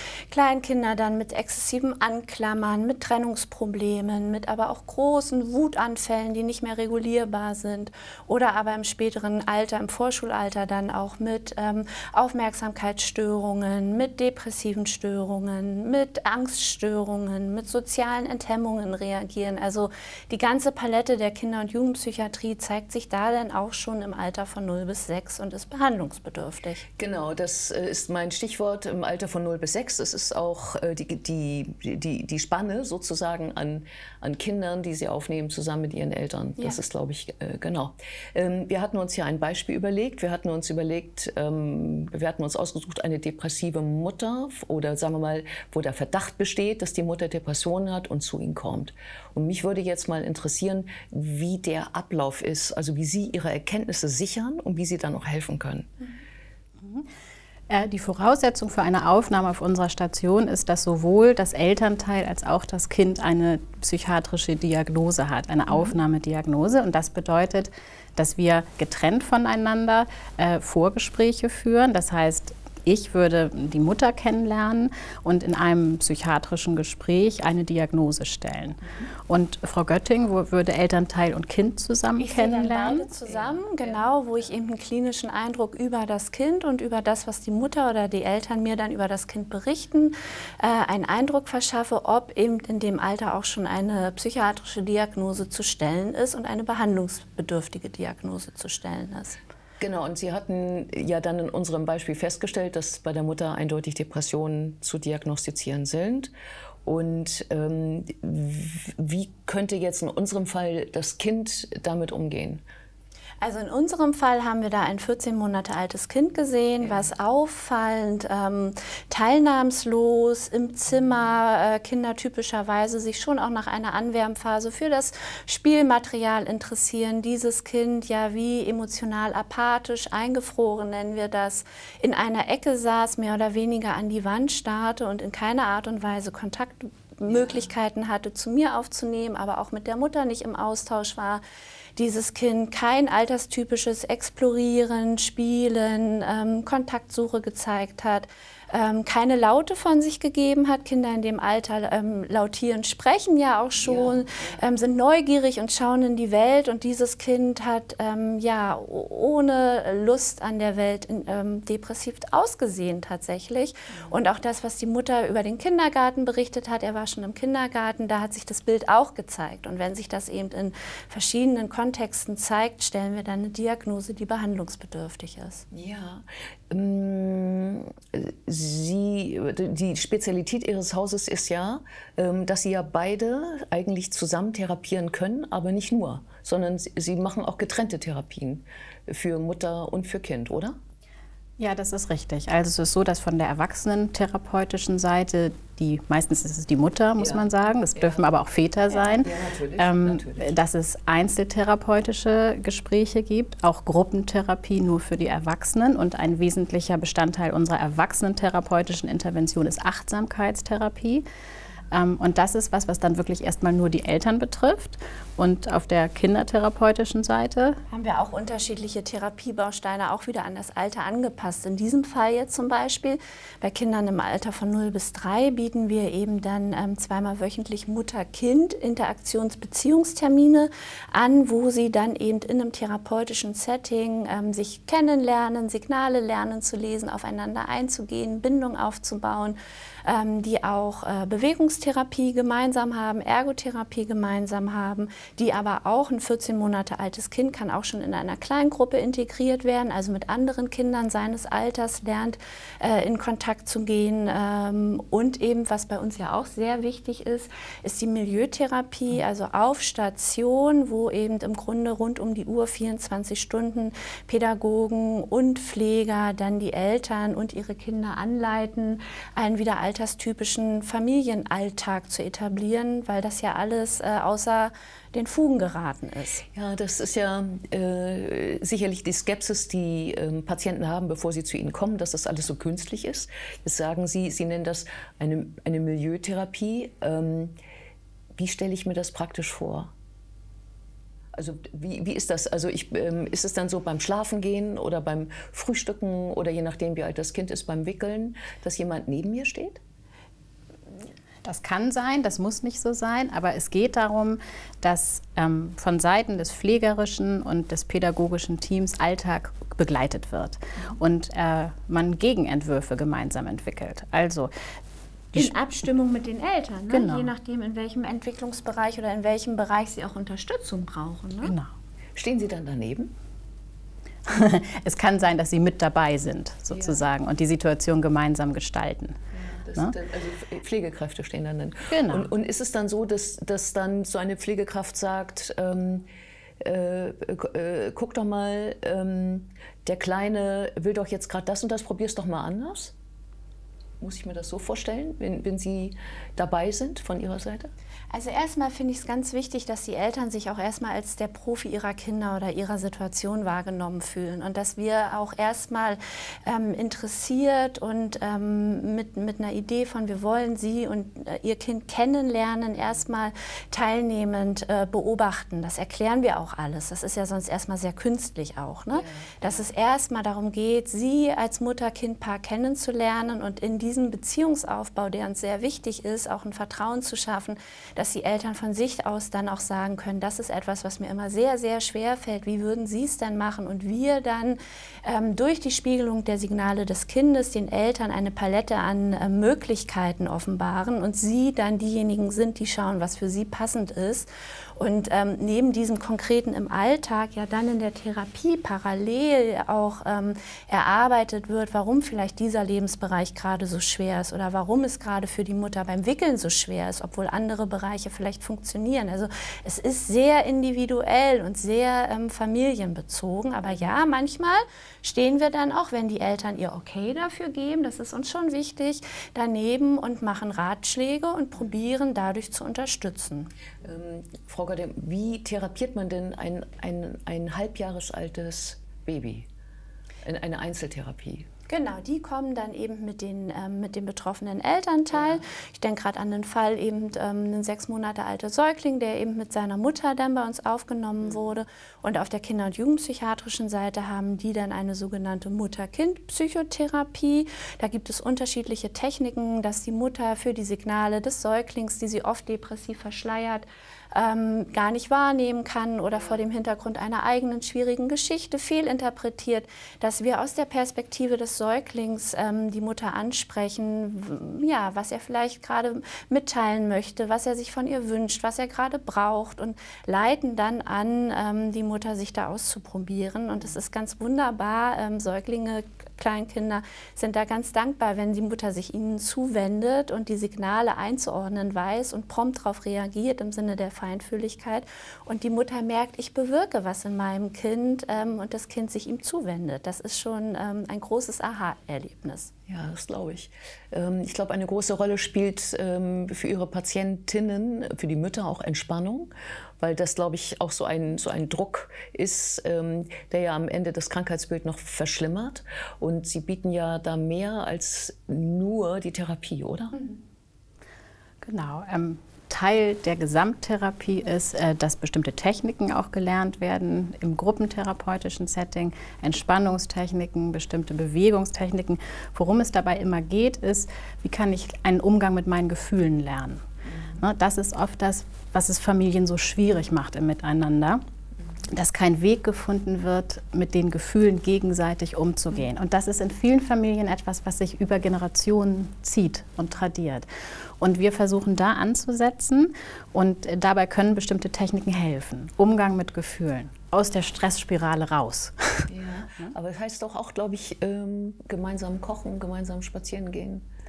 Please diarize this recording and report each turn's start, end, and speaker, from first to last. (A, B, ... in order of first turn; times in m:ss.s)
0:00.3-0:26.8 A
0:27.0-0:55.9 B
0:56.8-0:57.1 C
0:57.7-1:23.1 C
1:22.2-1:39.4 A
1:23.3-1:24.2 B
1:39.8-1:46.3 B
1:46.8-1:52.6 B
1:53.4-2:21.4 A
1:56.8-1:57.1 B
2:17.2-2:17.7 B
2:22.0-2:55.6 A
2:33.8-2:34.6 B
2:43.9-2:44.2 B
2:55.7-3:10.8 B
3:11.6-3:31.2 C
3:17.2-3:18.2 B
3:19.1-3:20.6 B
3:31.9-3:37.8 C
3:37.9-4:36.4 A
4:36.5-4:47.6 B
4:48.4-4:49.9 B
4:51.3-4:59.8 B
5:01.4-5:14.5 C
5:15.3-5:21.5 A
5:16.9-5:17.3 C
5:21.4-5:21.7 C
5:22.2-5:23.1 B
5:24.2-5:29.2 C
5:26.7-5:27.0 B
5:29.3-5:36.1 B
5:31.9-5:32.3 C
5:36.6-5:42.9 B
5:44.0-5:47.7 B
5:48.1-7:03.5 A
6:08.9-6:09.4 B
7:03.8-7:09.5 B
7:10.2-7:11.5 B
7:11.7-8:12.5 A
7:15.1-7:15.4 B
7:36.2-7:36.4 B
8:12.7-8:30.0 B
8:31.4-8:51.0 C
8:51.7-9:00.3 C
9:00.8-9:08.9 C
9:08.9-9:13.6 B